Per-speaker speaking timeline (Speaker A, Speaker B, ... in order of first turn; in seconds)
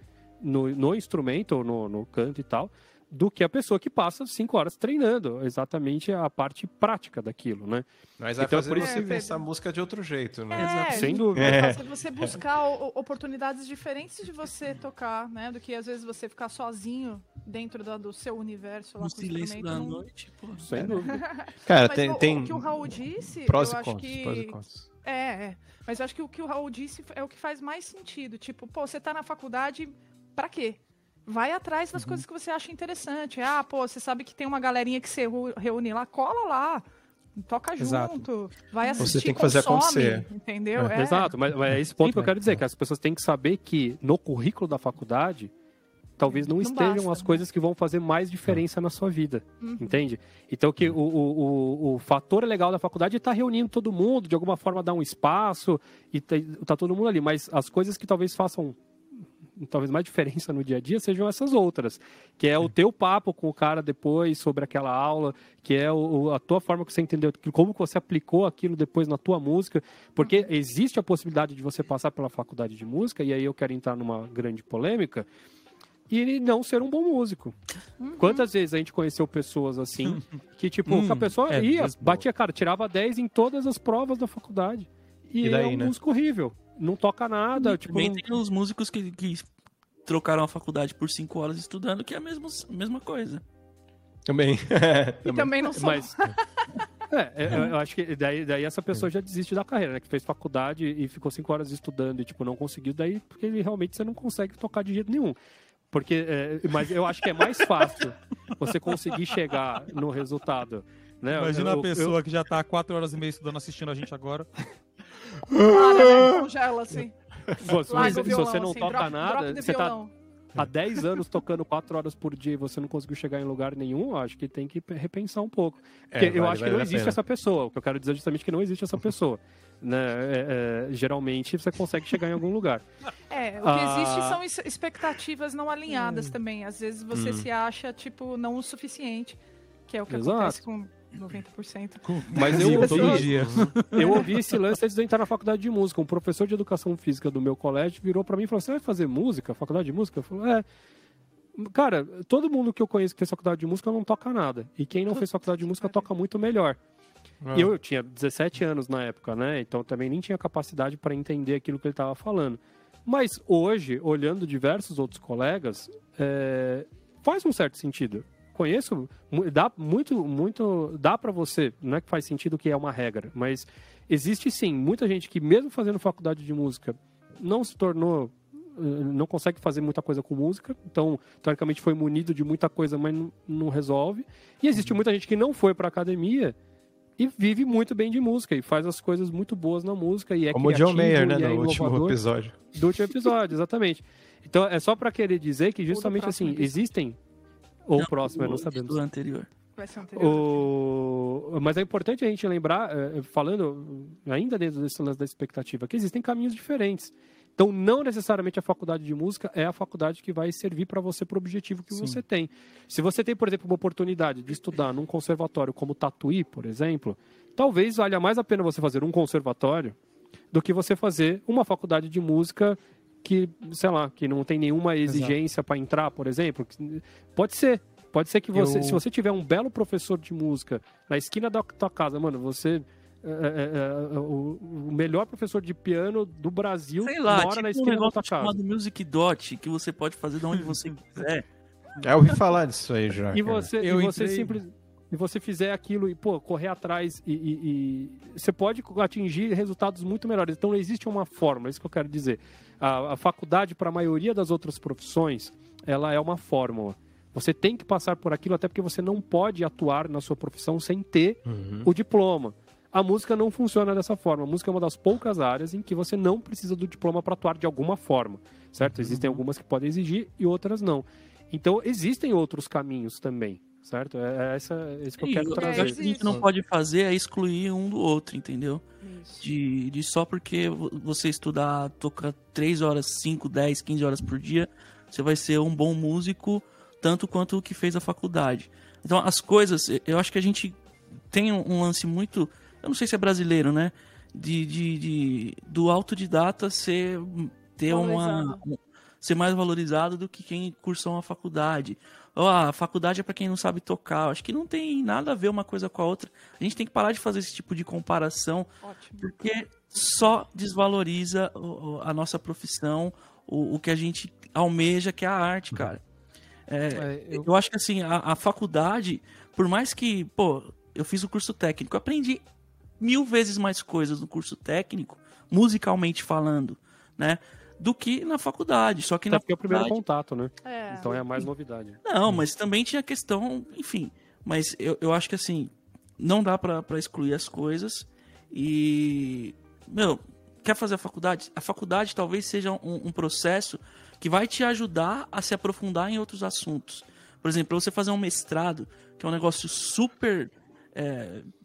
Speaker A: 0.4-7.8, 8.4-9.2, 10.9-11.7, 20.6-21.2, 40.9-45.5, 46.2-58.8, 59.5-75.2, 76.1-77.5, 78.2-88.2, 95.7-96.1, 97.1-105.3, 105.9-112.2, 117.6-120.0, 120.5-132.8, 133.6-134.4, 135.9-136.3, 140.1-140.6, 142.3-150.6, 151.6-156.8, 157.5-186.5, 187.2-192.2, 192.7-197.2, 197.9-199.0, 200.1-220.0, 220.5-238.5, 243.3-276.1, 329.3-332.0
Speaker B: 8.2-12.3, 21.6-24.9, 39.0-40.9, 85.4-85.9, 94.3-95.5, 115.4-116.5, 126.1-127.2, 137.1-137.5, 143.4-143.7, 157.4-157.7, 190.5-192.6, 242.0-243.7, 261.4-261.9, 268.8-269.3
Speaker C: 8.8-9.4, 10.5-20.0, 20.8-36.8, 37.3-41.3, 46.2-47.4, 49.6-50.0, 70.2-70.5, 78.0-78.5, 95.2-96.9, 115.5-117.2, 117.7-120.1, 133.3-143.3, 144.0-144.3, 155.1-156.0, 195.9-196.9, 199.8-200.7, 275.5-276.4, 279.0-279.5, 297.9-298.6, 308.8-309.3, 330.6-331.2
Speaker D: 10.5-11.1, 19.0-20.7, 87.6-89.5, 90.0-93.4, 117.9-118.2, 198.0-199.5, 237.0-241.4, 275.2-278.8, 279.4-290.8, 291.3-308.7, 309.2-316.0, 316.7-322.4, 323.0-330.0, 332.0-351.5
Speaker E: 32.0-32.2, 37.8-38.3, 42.0-42.3, 80.8-82.1, 111.3-114.5, 142.0-144.3, 211.9-212.2, 225.1-225.3, 228.5-229.0, 243.8-244.6, 316.9-317.4